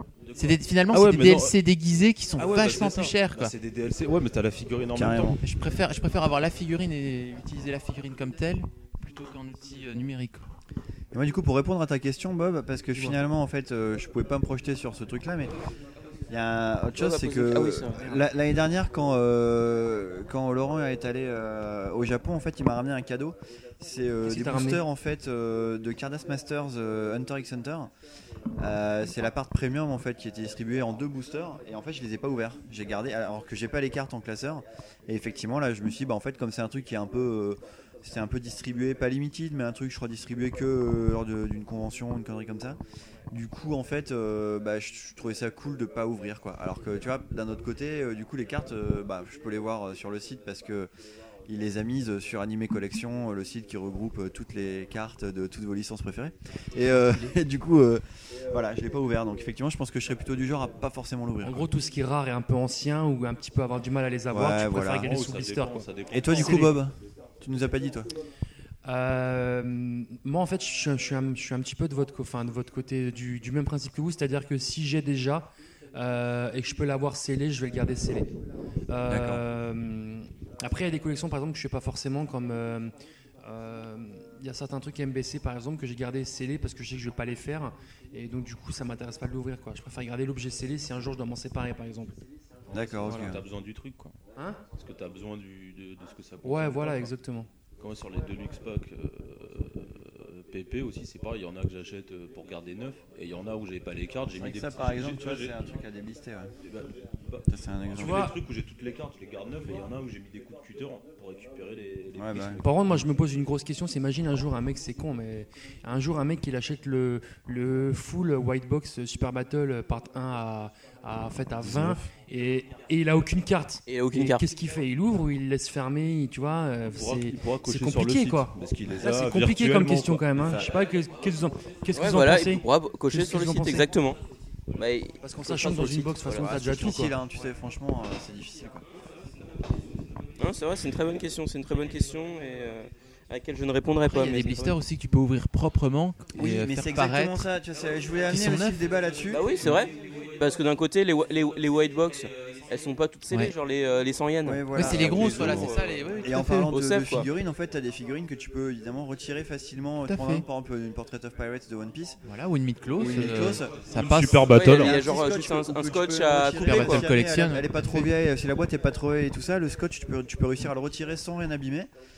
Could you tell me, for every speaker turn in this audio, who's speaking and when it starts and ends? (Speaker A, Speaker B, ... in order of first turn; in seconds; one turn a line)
Speaker A: 0.2-1.6
Speaker B: 0.4-3.5
Speaker A: 2.4-5.4
Speaker C: 5.0-5.4
Speaker B: 5.4-10.5
Speaker C: 11.1-15.5
Speaker C: 16.3-27.9
Speaker D: 17.0-18.0
Speaker E: 18.0-18.2
Speaker E: 24.2-24.8
Speaker C: 28.6-42.8
Speaker C: 43.3-50.9
Speaker C: 51.5-61.7
Speaker E: 61.4-66.8
Speaker C: 64.3-65.1
Speaker A: 65.0-66.8
Speaker C: 66.1-68.1
Speaker E: 68.8-78.3
Speaker E: 78.9-82.9
Speaker C: 79.1-79.4
Speaker E: 83.4-92.1
Speaker C: 92.7-93.4
Speaker A: 92.7-94.1
Speaker E: 93.0-93.3
Speaker E: 94.4-94.6
Speaker A: 94.8-97.1
Speaker E: 96.4-97.5
Speaker A: 97.8-105.6
Speaker C: 104.4-106.5
Speaker A: 106.6-113.0
Speaker C: 107.5-108.3
Speaker E: 107.9-108.3
Speaker C: 112.1-112.6
Speaker E: 112.6-133.9
Speaker A: 121.6-122.1
Speaker D: 123.9-124.4
Speaker A: 126.9-130.3
Speaker C: 130.4-130.7
Speaker D: 131.9-134.2
Speaker D: 134.8-136.5
Speaker E: 135.2-137.2
Speaker C: 136.4-138.8
Speaker D: 140.4-144.8
Speaker B: 144.0-147.4
Speaker C: 146.3-149.5
Speaker B: 148.3-148.8
Speaker D: 149.3-154.8
Speaker C: 154.4-162.2
Speaker B: 154.7-156.7
Speaker A: 154.8-156.0
Speaker D: 156.7-157.3
Speaker B: 160.1-160.4
Speaker B: 162.3-164.6
Speaker C: 163.0-163.7
Speaker A: 163.9-165.0
Speaker D: 164.5-167.1
Speaker C: 164.7-171.9
Speaker B: 166.6-168.1